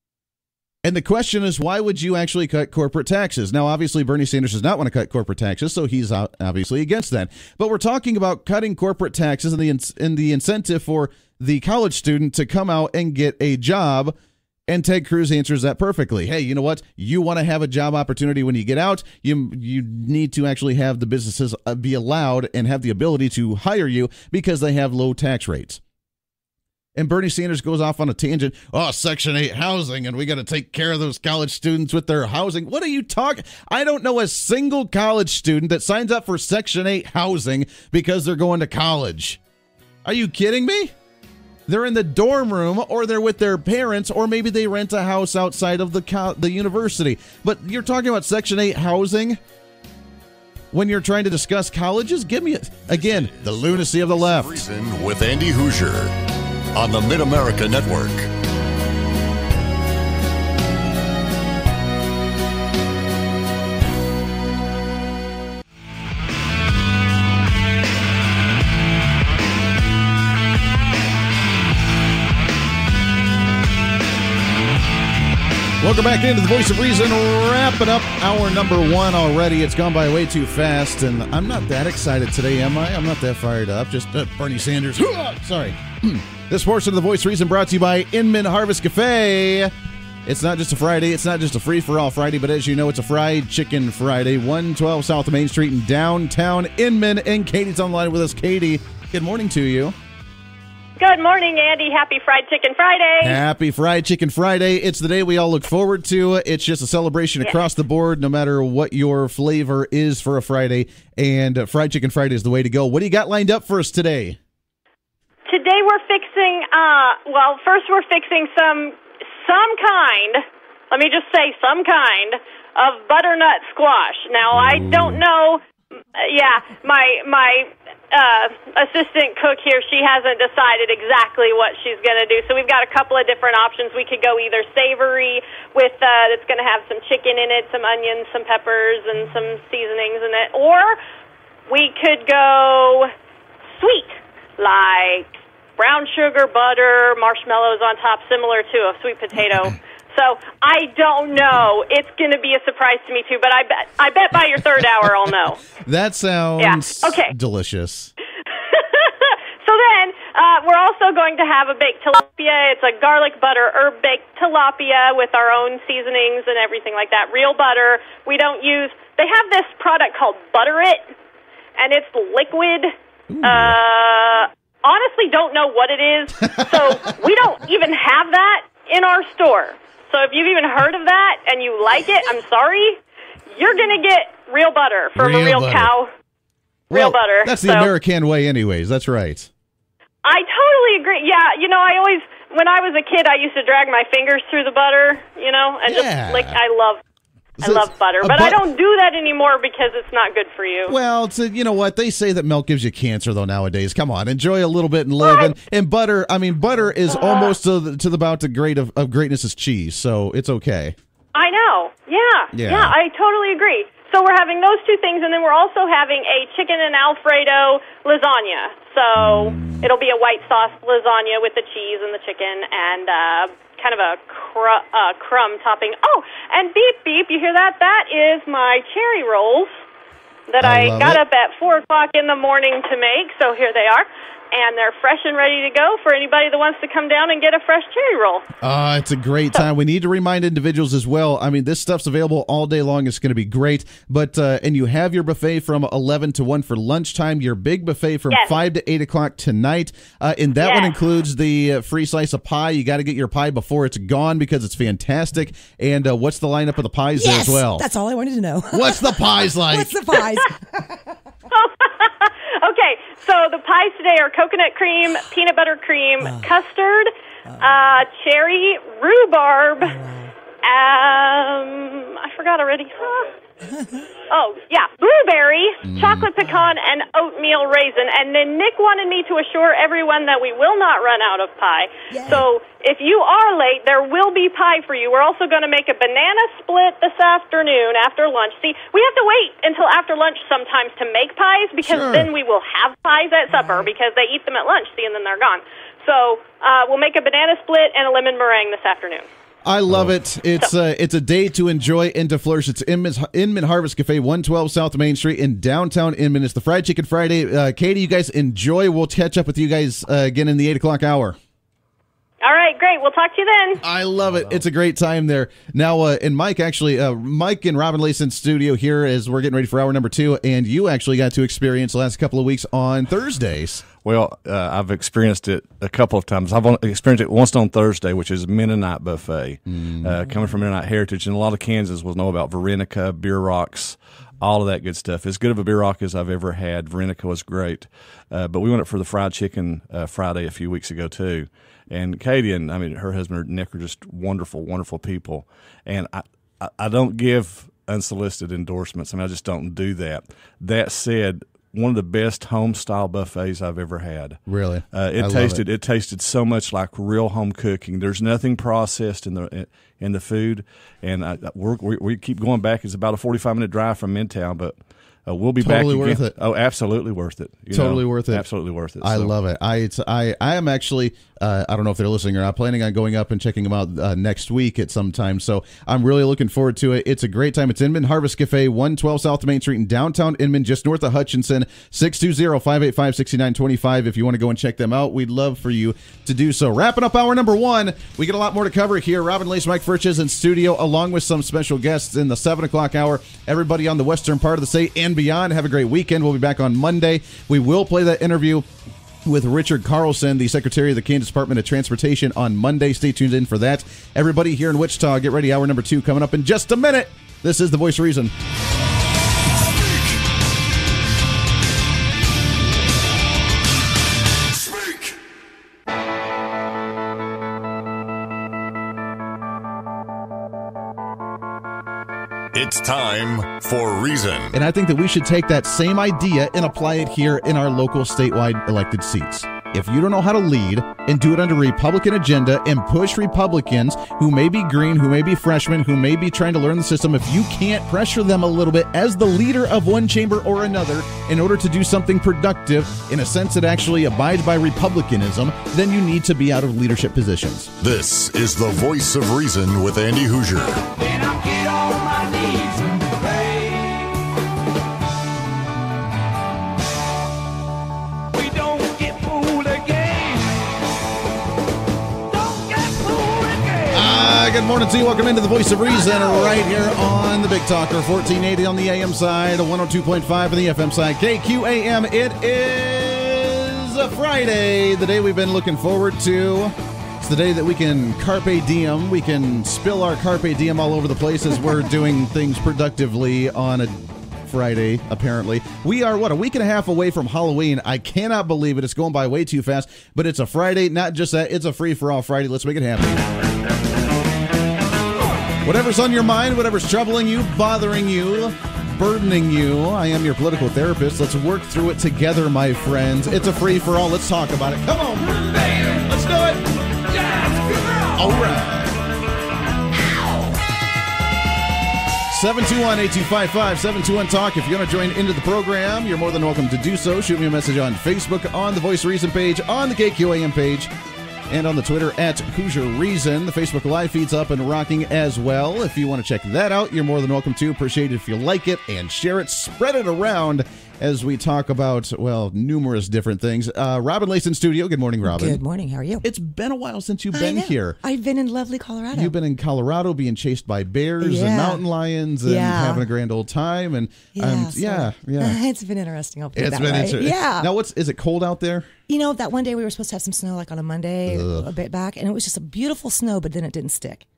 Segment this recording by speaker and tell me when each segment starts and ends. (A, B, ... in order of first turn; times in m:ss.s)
0:00.8-0:14.1 A
0:14.7-0:25.8 A
0:27.0-0:39.4 A
0:40.0-0:40.9 A
0:41.7-0:49.4 A
0:50.7-0:54.6 A
0:53.0-0:56.1 B
0:56.8-0:58.3 B
1:15.8-1:29.7 A
1:30.3-1:40.0 A
1:41.0-1:43.4 C
1:43.2-1:54.4 A
1:55.5-2:05.6 C
2:04.5-2:05.2 A
2:06.2-2:21.0 C
2:21.7-2:23.1 C
2:23.8-2:35.6 C
2:35.8-2:38.1 A
2:36.6-2:37.3 C
2:38.7-2:51.1 C
2:51.8-3:03.0 C
2:53.3-2:53.8 A
2:56.5-2:56.8 A
3:03.5-3:06.1 C
3:05.2-3:05.9 A
3:06.9-3:09.5 A
3:06.9-3:07.9 C
3:10.2-3:17.0 C
3:15.9-3:16.6 A
3:17.6-3:18.6 A
3:17.6-3:21.0 C
3:20.9-3:31.0 A
3:25.2-3:25.6 C
3:27.1-3:27.6 C
3:31.4-3:49.8 C
3:32.5-3:33.0 A
3:39.2-3:39.9 A
3:50.5-3:58.5 C
3:50.6-3:51.2 A
3:58.6-4:17.9 A
4:08.3-4:08.6 C
4:10.6-4:11.0 C
4:17.2-4:21.2 D
4:18.7-4:19.9 A
4:21.5-4:30.0 C
4:26.2-4:26.5 D
4:29.8-4:30.4 D
4:30.6-4:33.3 C
4:33.6-4:34.0 D
4:34.3-4:59.3 C
4:35.8-4:36.3 A
4:42.1-4:42.4 D
4:51.8-4:52.3 A
4:53.6-4:53.9 D
4:59.6-5:11.4 A
5:12.4-5:13.8 C
5:13.8-5:23.8 A
5:24.0-6:09.3 E
5:29.7-5:30.2 A
5:54.5-5:55.6 A
6:05.6-6:06.4 A
6:07.7-6:08.5 A
6:09.0-6:38.7 A
6:39.2-6:48.3 A
7:02.5-7:04.5 B
7:04.5-7:27.7 A
7:27.8-7:30.9 B
7:43.9-8:13.2 A
8:15.6-8:26.7 A
8:28.0-8:29.0 A
8:32.3-8:40.9 A
8:41.5-8:55.6 A
8:55.2-8:56.2 D
8:56.2-8:58.0 A
8:57.3-8:59.4 D
8:59.1-9:05.6 A
9:01.2-9:01.8 D
9:02.4-9:03.1 D
9:04.3-9:07.7 D
9:06.6-9:08.9 A
9:09.1-9:14.3 D
9:11.3-9:11.7 A